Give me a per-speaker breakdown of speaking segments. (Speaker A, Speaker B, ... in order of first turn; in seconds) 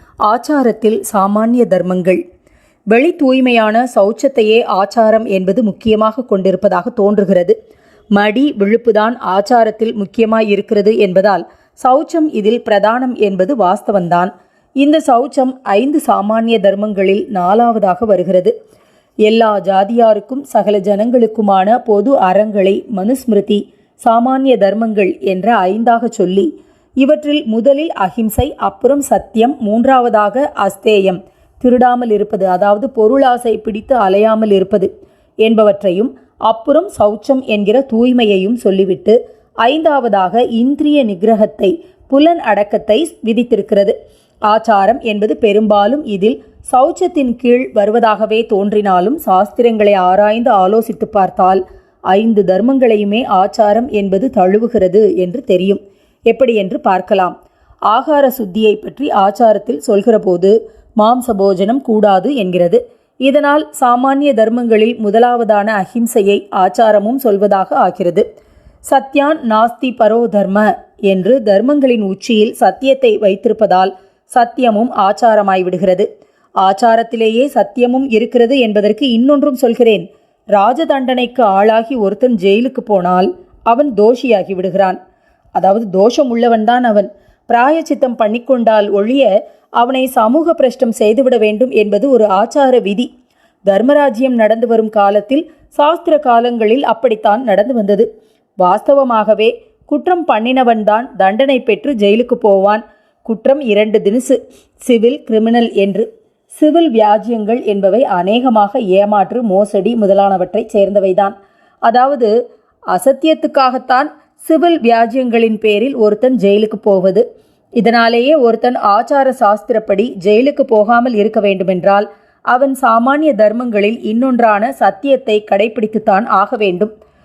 Speaker A: 0.3-2.2, 2.9-7.5, 8.2-18.5, 19.3-26.5, 27.0-34.9, 35.5-44.0, 44.5-57.3, 57.9-68.2, 68.9-76.1, 76.6-85.0, 85.5-93.1, 93.7-98.1, 98.6-111.3, 111.9-112.3, 112.9-117.2, 117.8-126.9